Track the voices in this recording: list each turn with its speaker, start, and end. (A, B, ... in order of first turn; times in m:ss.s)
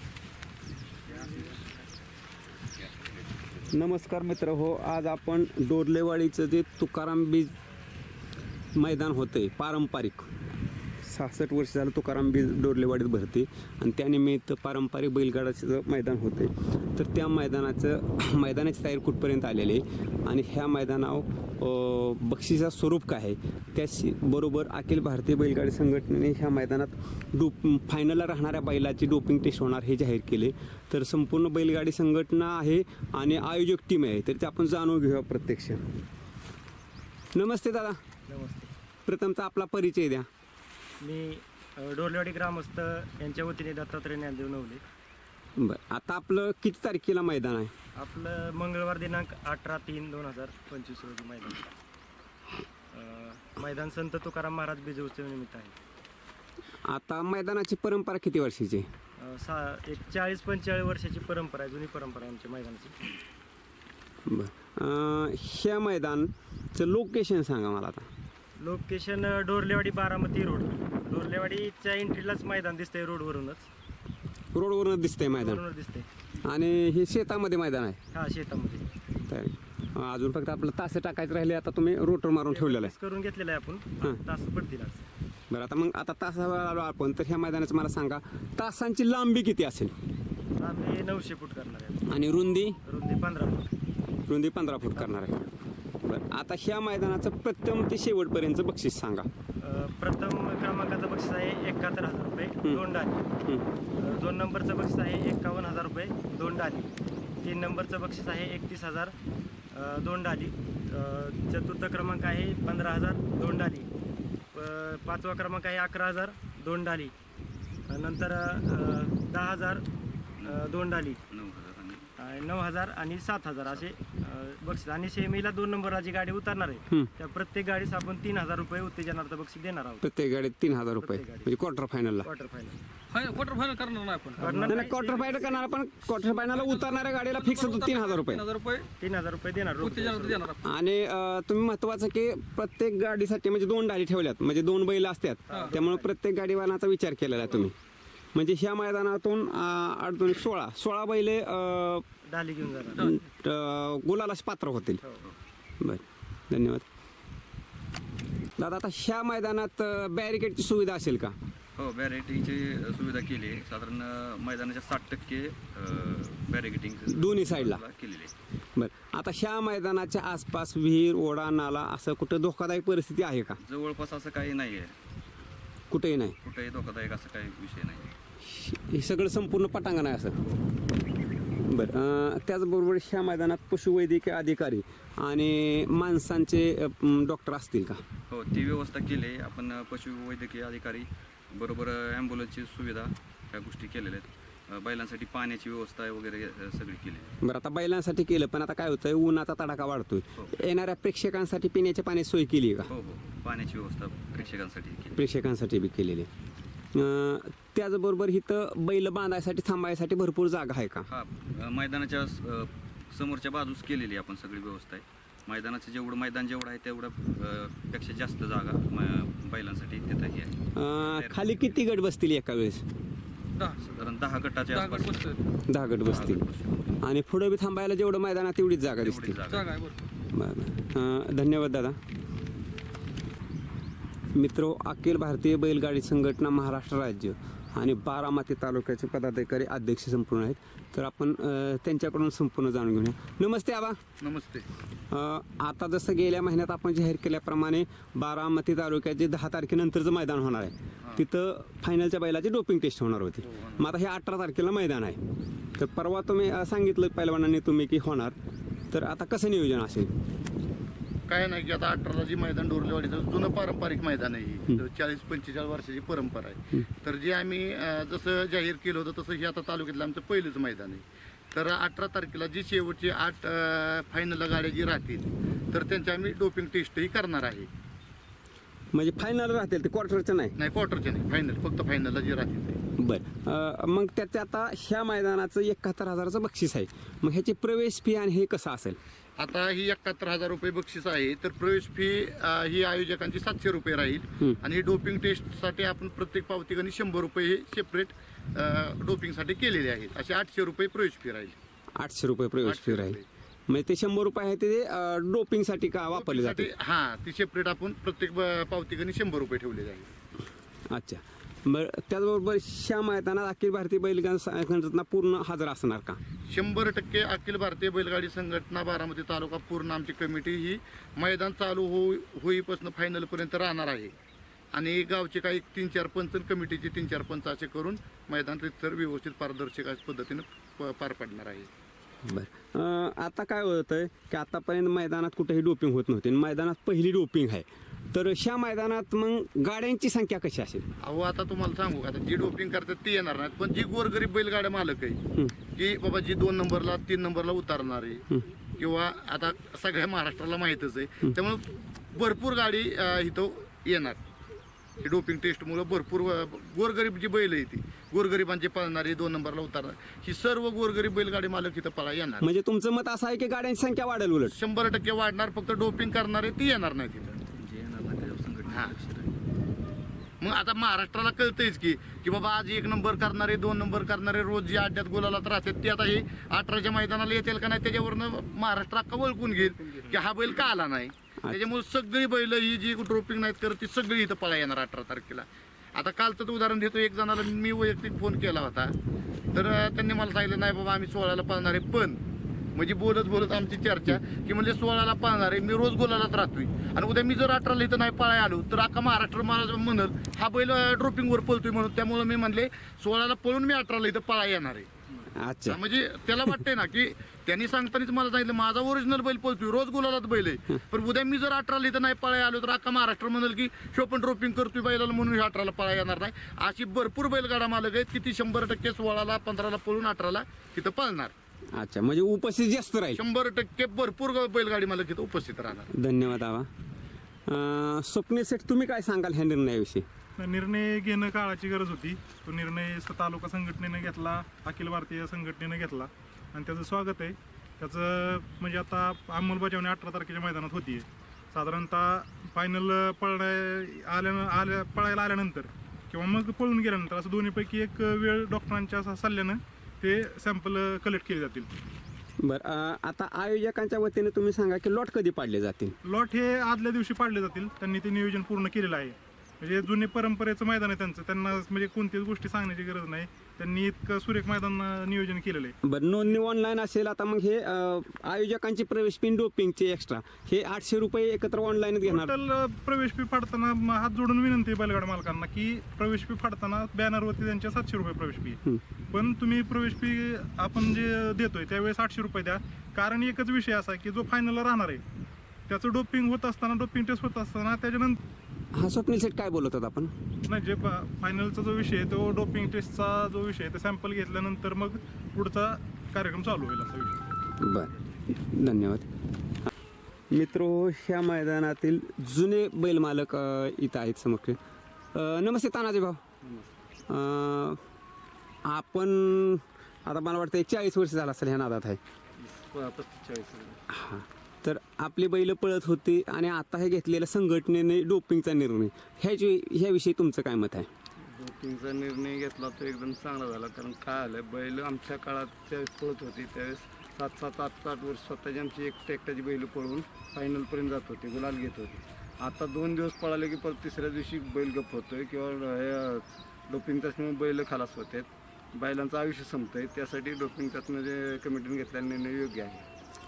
0:03.7-0:07.5 A
0:08.8-0:10.3 A
0:11.0-0:35.8 A
0:37.4-0:38.0 A
0:38.3-0:38.8 B
0:39.1-0:40.3 A
0:41.0-0:44.8 B
0:45.6-0:47.7 A
0:48.0-0:51.7 B
0:52.9-0:55.7 B
0:56.9-0:58.9 A
0:59.2-1:03.0 B
1:04.3-1:08.1 A
1:08.6-1:13.7 B
1:14.5-1:15.6 A
1:15.3-1:16.1 B
1:16.5-1:18.0 A
1:18.1-1:18.9 B
1:19.3-1:22.9 A
1:22.5-1:25.0 B
1:25.5-1:29.9 A
1:30.6-1:32.0 B
1:32.1-1:32.8 A
1:32.8-1:33.7 B
1:34.3-1:35.4 A
1:34.9-1:35.3 B
1:36.0-1:39.3 A
1:39.6-1:43.2 B
1:44.0-1:46.9 B
1:47.4-1:49.1 B
1:49.7-1:53.9 B
1:54.5-1:57.1 B
1:57.9-1:59.8 B
2:00.4-2:01.2 B
2:01.3-2:02.1 C
2:02.2-2:10.1 B
2:10.0-2:12.3 A
2:11.0-2:11.5 B
2:12.2-2:12.8 B
2:13.1-2:14.9 D
2:14.4-2:15.7 B
2:14.7-2:18.4 A
2:16.1-2:18.9 D
2:19.0-2:20.5 B
2:19.8-2:20.6 D
2:20.6-2:27.8 A
2:25.5-2:26.1 B
2:28.3-2:32.0 A
2:32.3-2:33.1 B
2:33.0-2:35.0 A
2:35.8-2:36.8 A
2:38.6-2:41.4 A
2:41.8-2:48.3 C
2:47.1-2:47.8 A
2:48.8-2:53.6 A
2:53.6-2:54.9 C
2:55.9-2:56.4 A
2:56.4-2:58.1 C
2:58.4-3:00.4 A
3:01.6-3:08.0 A
3:08.3-3:17.3 C
3:17.4-3:22.9 A
3:22.9-3:25.2 C
3:25.2-3:26.3 A
3:27.0-3:31.1 A
3:31.1-3:41.8 C
3:40.8-3:42.8 A
3:43.6-3:43.9 D
3:43.9-3:45.3 C
3:44.7-3:45.4 D
3:45.7-3:46.4 A
3:46.0-3:47.0 C
3:47.0-3:49.4 A
3:49.0-3:49.7 C
3:49.5-3:50.0 D
3:50.3-3:52.0 A
3:54.4-4:04.0 A
4:04.2-4:04.7 E
4:05.1-4:15.2 A
4:13.4-4:13.9 E
4:15.8-4:18.3 A
4:18.9-4:20.1 A
4:21.3-4:37.7 E
4:38.9-4:40.6 A
4:40.6-4:42.8 E
4:43.0-4:49.0 A
4:49.4-5:01.6 E
5:02.0-5:03.2 A
5:02.6-5:03.2 E
5:03.7-5:06.7 A
5:06.1-5:10.1 E
5:10.9-5:16.2 A
5:16.5-5:24.1 E
5:24.7-5:31.7 E
5:32.3-5:40.9 A
5:41.0-5:45.2 E
5:45.8-5:54.2 E
5:55.0-6:02.5 E
6:02.4-6:04.6 A
6:04.5-6:07.4 E
6:07.5-6:09.3 C
6:08.7-6:09.0 E
6:10.4-6:28.9 E
6:29.5-6:32.2 E
6:32.8-6:44.9 E
6:45.4-6:45.8 A
6:45.7-7:01.3 E
7:01.8-7:03.2 A
7:03.1-7:05.9 E
7:05.9-7:06.7 A
7:07.5-7:10.1 A
7:10.4-7:31.7 F
7:32.4-7:36.0 A
7:36.1-7:45.7 F
7:45.8-7:52.3 A
7:52.0-7:58.6 F
7:59.1-8:05.0 F
8:05.7-8:08.2 F
8:08.7-8:10.1 A
8:10.5-8:17.1 F
8:17.6-8:19.1 A
8:20.3-8:24.6 A
8:25.2-8:26.2 A
8:26.4-8:26.7 G
8:27.1-8:27.8 A
8:28.7-8:32.0 A
8:32.4-8:33.8 G
8:33.9-8:40.9 A
8:41.3-9:02.8 G